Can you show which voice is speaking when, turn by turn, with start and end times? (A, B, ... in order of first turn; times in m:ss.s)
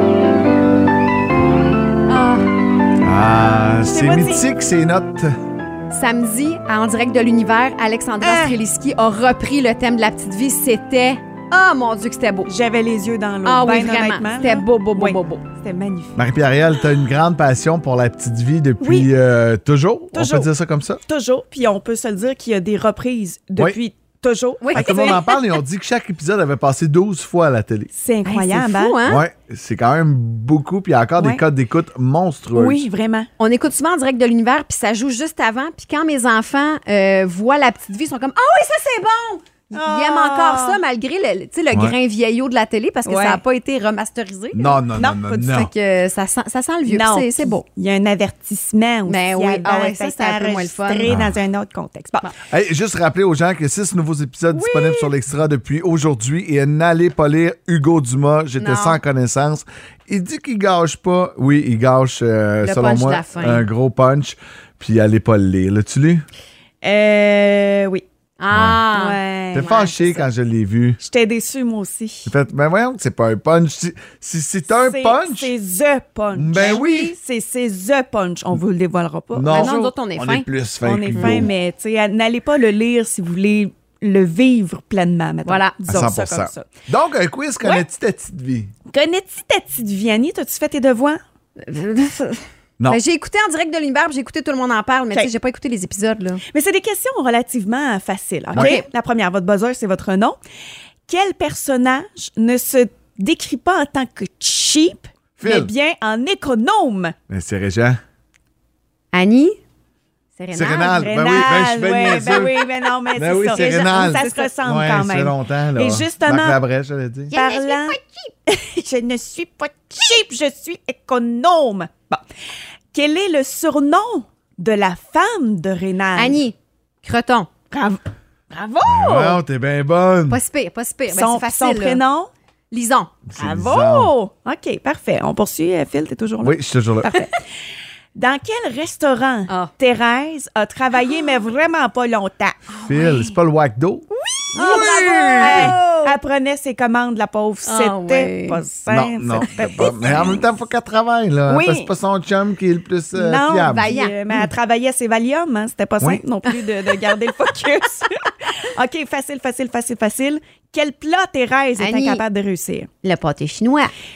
0:02.1-0:02.4 A
0:03.0-0:05.3 B
0:03.9-0:04.4 C
0:05.9-0:12.5 A
0:08.2-0:08.6 C
0:12.5-0:16.2 C
0:13.4-0:15.4 A
0:16.2-0:21.0 B
0:18.8-0:19.1 C
0:20.1-0:20.5 C
0:21.1-0:25.4 C
0:24.6-0:25.4 A
0:24.7-0:27.9 B
0:27.9-0:29.1 C
0:28.3-0:29.2 A
0:29.0-0:32.8 B
0:32.6-0:33.3 C
0:33.4-0:44.8 A
0:39.7-0:40.8 C
0:43.0-0:43.4 C
0:44.5-0:45.7 B
0:44.9-0:45.5 C
0:45.3-0:47.6 A
0:46.9-0:52.3 C
0:49.1-0:51.1 A
0:51.1-0:51.4 B
0:52.5-1:06.3 B
0:54.6-0:55.0 C
0:58.6-0:59.0 A
1:02.6-1:03.6 A
1:06.8-1:08.0 C
1:08.4-1:10.2 A
1:08.5-1:08.8 B
1:08.9-1:10.1 C
1:09.5-1:11.0 B
1:11.0-1:12.3 C
1:12.3-1:15.5 B
1:14.7-1:20.0 C
1:16.3-1:17.2 B
1:16.6-1:17.1 A
1:19.4-1:21.5 B
1:19.5-1:20.5 A
1:20.8-1:26.7 C
1:25.4-1:25.8 A
1:25.9-1:28.7 B
1:28.9-1:31.2 C
1:31.6-1:36.4 A
1:36.5-1:40.4 C
1:38.5-1:38.8 B
1:38.6-1:38.9 A
1:41.1-1:47.2 C
1:45.4-1:45.7 B
1:47.3-1:48.0 B
1:49.1-1:49.6 A
1:50.4-1:51.1 A
1:50.5-1:57.3 B
1:50.9-1:56.6 C
1:53.8-1:54.5 A
1:57.3-1:58.3 A
1:57.3-2:02.2 C
2:02.9-2:06.4 C
2:06.2-2:07.5 A
2:07.7-2:08.0 C
2:08.5-2:09.4 C
2:08.8-2:10.4 B
2:10.3-2:12.0 A
2:11.1-2:12.3 C
2:12.7-2:13.1 A
2:13.4-2:14.1 B
2:13.4-2:17.4 C
2:16.4-2:17.1 B
2:18.2-2:22.7 C
2:22.7-2:23.2 A
2:22.8-2:24.0 B
2:24.2-2:30.4 C
2:24.5-2:26.2 A
2:24.8-2:25.8 B
2:27.7-2:28.6 A
2:28.9-2:33.9 B
2:29.4-2:29.9 A
2:31.5-2:31.9 C
2:33.1-2:42.9 C
2:33.7-2:34.2 A
2:41.8-2:42.2 A
2:43.0-2:43.9 A